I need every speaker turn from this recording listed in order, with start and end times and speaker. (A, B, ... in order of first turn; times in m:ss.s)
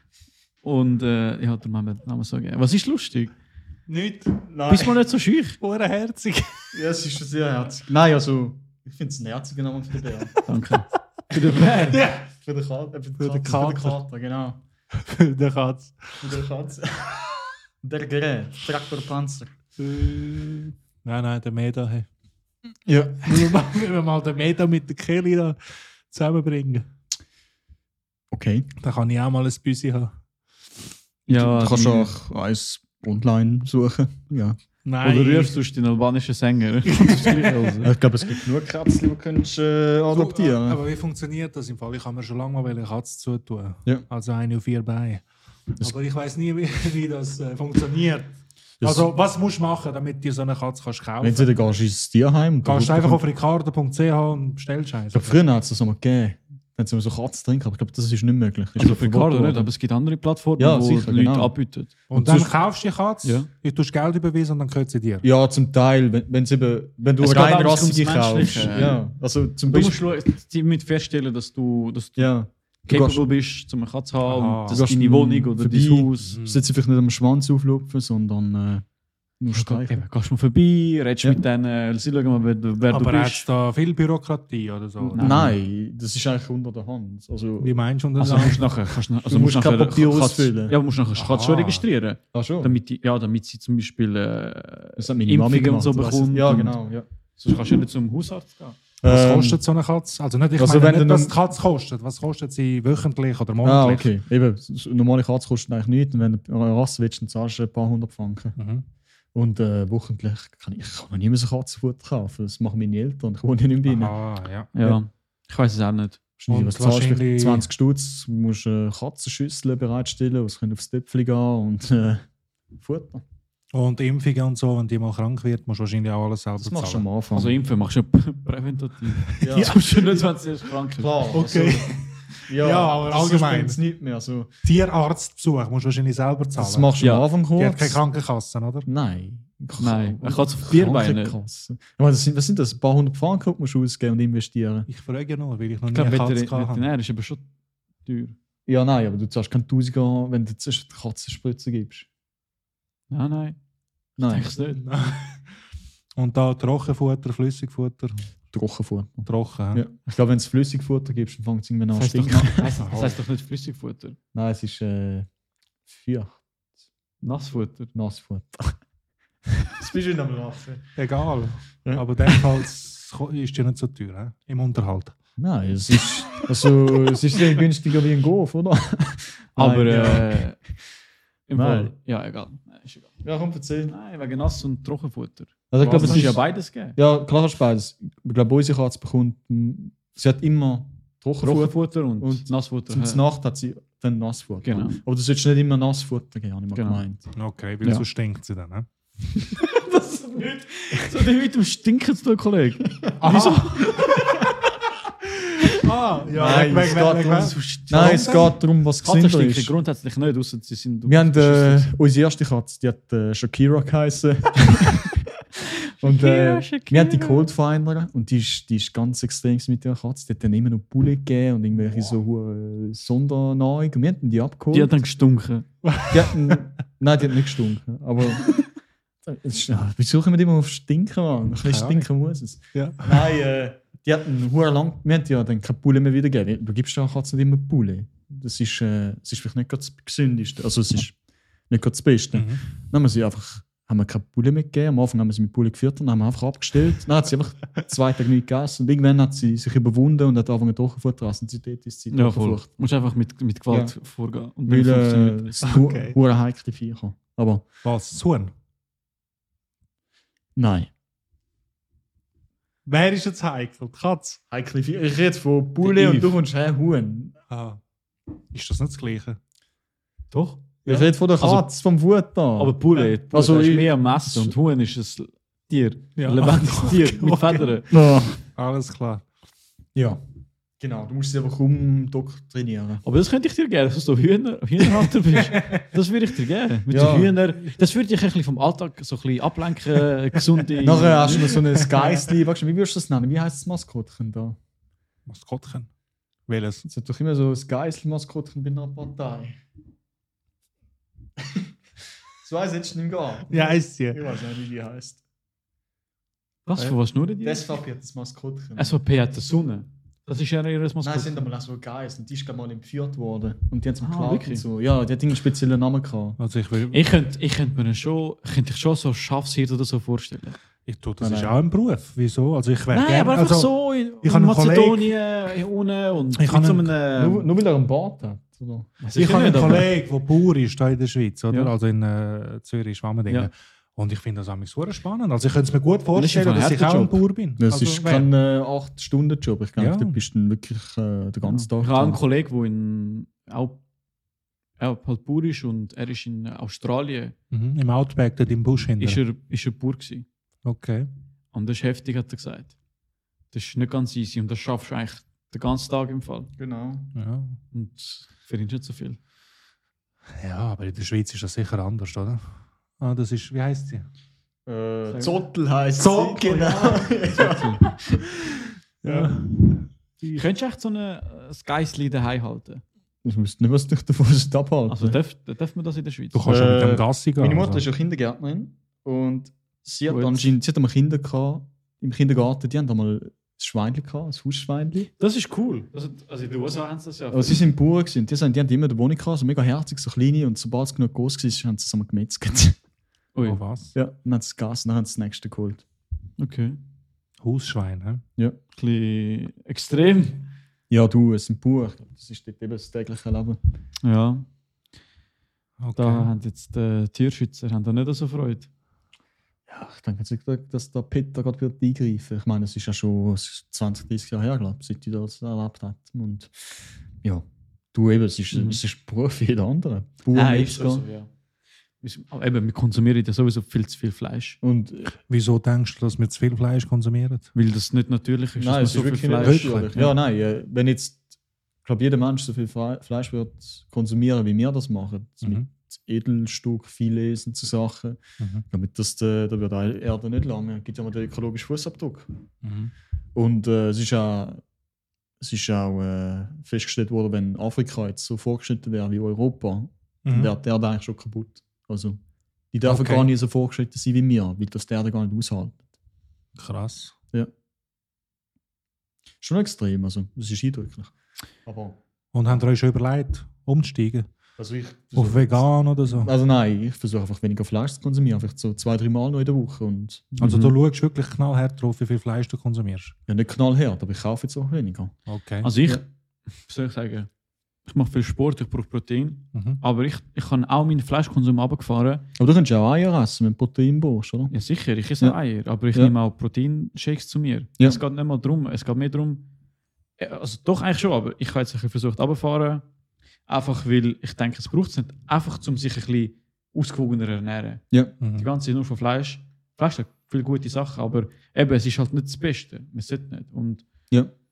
0:00.6-0:03.3 A
0:03.9-0:04.4 B
0:04.4-0:05.0 C
0:04.7-0:05.6 A
0:05.6-0:06.7 B
0:06.7-0:10.4 C
0:10.4-0:12.1 A
0:11.9-0:12.3 B
0:12.4-0:14.6 C
0:13.2-0:14.0 B
0:14.9-0:16.4 B
0:16.2-0:17.3 C
0:17.8-0:19.5 C
0:19.8-0:22.1 B
0:22.9-0:23.7 C
0:23.2-0:25.6 B
0:26.1-0:26.8 B
0:28.3-0:28.7 C
0:28.8-0:30.2 B
0:31.3-0:32.1 A
0:31.3-0:34.6 C
0:34.8-0:35.5 B
0:35.0-0:37.9 A
0:36.9-0:37.7 B
0:37.8-0:40.8 C
0:40.1-0:45.2 B
0:45.8-0:51.5 B
0:48.8-0:49.1 C
0:51.2-0:53.2 C
0:52.6-0:55.4 B
0:55.1-0:59.7 C
0:58.8-1:01.9 A
1:00.6-1:01.5 C
1:02.1-1:02.5 C
1:02.1-1:05.2 B
1:03.2-1:03.5 A
1:05.2-1:10.0 C
1:07.2-1:09.0 A
1:09.7-1:12.3 A
1:12.2-1:13.3 C
1:12.9-1:16.4 A
1:14.2-1:14.8 B
1:14.7-1:18.8 C
1:16.3-1:16.6 B
1:19.4-1:20.1 C
1:19.5-1:23.5 A
1:22.9-1:25.5 B
1:25.0-1:25.5 A
1:25.2-1:28.6 C
1:27.6-1:28.7 B
1:28.2-1:36.8 A
1:29.2-1:30.8 C
1:31.2-1:31.8 B
1:32.3-1:32.8 C
1:35.0-1:37.1 C
1:37.4-1:38.8 A
1:39.0-1:39.6 C
1:39.0-1:44.1 B
1:40.6-1:41.3 C
1:43.6-1:48.6 C
1:48.6-1:48.8 B
1:49.4-1:54.2 C
1:53.9-1:54.7 B
1:54.8-1:56.2 A
1:56.4-2:02.2 C
1:56.5-1:57.7 B
2:02.8-2:03.2 C
2:03.7-2:07.0 B
2:06.6-2:07.6 C
2:07.3-2:11.2 A
2:09.4-2:09.8 B
2:09.4-2:10.2 C
2:11.0-2:14.5 C
2:11.3-2:13.8 B
2:14.6-2:17.0 B
2:16.6-2:18.0 C
2:17.0-2:17.2 A
2:17.6-2:18.9 B
2:18.9-2:24.9 C
2:19.8-2:21.4 A
2:24.9-2:26.8 B
2:25.9-2:27.5 A
2:28.0-2:28.4 A
2:28.7-2:32.1 C
2:33.1-2:33.6 A
2:34.2-2:34.5 C
2:34.2-2:34.8 A
2:34.8-2:35.4 B
2:36.2-2:38.2 B
2:38.5-2:43.1 C
2:39.3-2:39.8 B
2:41.9-2:44.2 A
2:42.8-2:43.1 B
2:44.3-2:45.3 C
2:45.9-2:46.4 C
2:47.2-2:47.9 A
2:47.9-2:48.8 C
2:49.6-2:51.0 C
2:51.0-2:55.2 B
2:51.8-2:52.6 C
2:55.4-3:00.4 C
2:59.6-3:00.6 A
3:01.5-3:03.1 A
3:01.6-3:01.9 C
3:03.2-3:04.0 C
3:03.9-3:07.0 A
3:05.7-3:17.2 C
3:11.4-3:13.2 A
3:14.6-3:15.0 A
3:16.7-3:17.0 A
3:17.4-3:18.9 B
3:19.4-3:24.5 A
3:23.2-3:24.5 B
3:25.7-3:28.5 B
3:26.3-3:29.7 C
3:26.8-3:31.9 A
3:31.1-3:35.2 C
3:35.6-3:37.5 A
3:36.0-3:45.0 C
3:44.7-3:45.7 A
3:45.8-3:46.6 B
3:46.1-3:48.6 C
3:49.2-4:01.2 C
3:51.6-3:52.1 B
3:52.7-3:53.3 B
4:01.7-4:12.7 C
4:02.3-4:02.6 B
4:12.1-4:15.8 A
4:14.7-4:17.7 C
4:15.6-4:16.2 B
4:17.8-4:18.5 B
4:20.6-4:20.9 C
4:22.8-4:24.4 B
4:24.5-4:27.4 C
4:25.8-4:26.4 A
4:27.5-4:27.8 B
4:28.5-4:29.4 B
4:30.3-4:30.8 A
4:30.8-4:34.5 C
4:31.4-4:31.7 A
4:32.6-4:37.9 A
4:36.2-4:37.8 B
4:37.9-4:38.4 C
4:38.6-4:39.2 B
4:40.0-4:40.2 C
4:40.8-4:43.0 C
4:43.0-4:51.6 A
4:45.5-4:45.8 B
4:46.9-4:47.4 C
4:50.8-4:54.6 C
4:51.8-4:52.3 B
4:55.3-4:55.9 B
4:56.5-4:56.8 B
4:56.8-4:59.6 C
5:01.4-5:01.7 C
5:02.4-5:05.2 C
5:03.5-5:04.2 B
5:06.7-5:07.7 A
5:07.4-5:09.0 C
5:08.8-5:11.4 A
5:11.0-5:16.4 C
5:14.0-5:14.6 A
5:16.4-5:17.0 B
5:16.9-5:20.6 A
5:20.9-5:25.1 B
5:21.2-5:21.6 C
5:22.9-5:27.5 A
5:26.4-5:26.9 B
5:27.1-5:29.9 C
5:29.0-5:29.9 A
5:29.2-5:38.3 B
5:36.2-5:37.2 A
5:37.6-5:42.2 C
5:39.8-5:40.2 B
5:41.5-5:43.8 A
5:44.8-5:47.4 A
5:47.5-5:49.2 B
5:49.0-5:50.3 A
5:50.6-5:51.1 B
5:51.5-5:52.7 A
5:53.5-5:56.5 A
5:56.6-5:57.1 C
5:57.2-5:57.6 B
5:57.7-5:59.2 A
6:00.4-6:04.1 B
6:04.7-6:08.4 C
6:05.1-6:05.4 A
6:06.0-6:07.1 B
6:07.4-6:07.8 A
6:09.0-6:10.4 B
6:10.4-6:12.8 A
6:13.2-6:15.2 C
6:14.9-6:16.5 A
6:16.3-6:17.8 B
6:16.5-6:25.1 C
6:20.1-6:20.5 A
6:25.2-6:27.6 A
6:27.3-6:32.8 C
6:33.4-6:33.6 A
6:33.4-6:33.9 B
6:33.9-6:35.8 C
6:36.4-6:36.8 A
6:37.4-6:38.2 B
6:38.7-6:40.4 A
6:40.9-6:43.6 C
6:44.0-6:44.5 A
6:45.8-6:46.3 B
6:46.0-6:48.7 A
6:49.7-6:56.5 C
6:57.2-7:01.0 C
6:58.5-6:58.8 A
7:00.3-7:01.3 A
7:02.0-7:04.6 A
7:04.6-7:05.2 C
7:05.3-7:07.5 B
7:07.6-7:10.1 A
7:08.6-7:11.2 C
7:09.4-7:09.9 B
7:11.8-7:18.2 C
7:18.7-7:22.3 C
7:22.6-7:22.9 B
7:23.4-7:24.6 C
7:25.4-7:32.2 C
7:30.3-7:30.5 B
7:32.7-7:35.8 C
7:32.8-7:33.3 B
7:36.6-7:37.1 B
7:39.4-7:41.1 C
7:41.7-7:42.0 C
7:42.3-7:44.3 B
7:44.6-7:50.5 C
7:45.2-7:46.3 B
7:50.4-7:50.7 A
7:50.4-7:53.1 B
7:53.3-7:55.1 C
7:55.3-7:55.7 B
7:55.6-7:56.0 A
7:56.6-7:57.3 A
7:57.9-8:02.2 A
7:59.5-7:59.8 B
8:02.4-8:04.6 C
8:04.5-8:09.5 A
8:10.2-8:12.8 A
8:13.5-8:23.8 A
8:18.2-8:18.5 B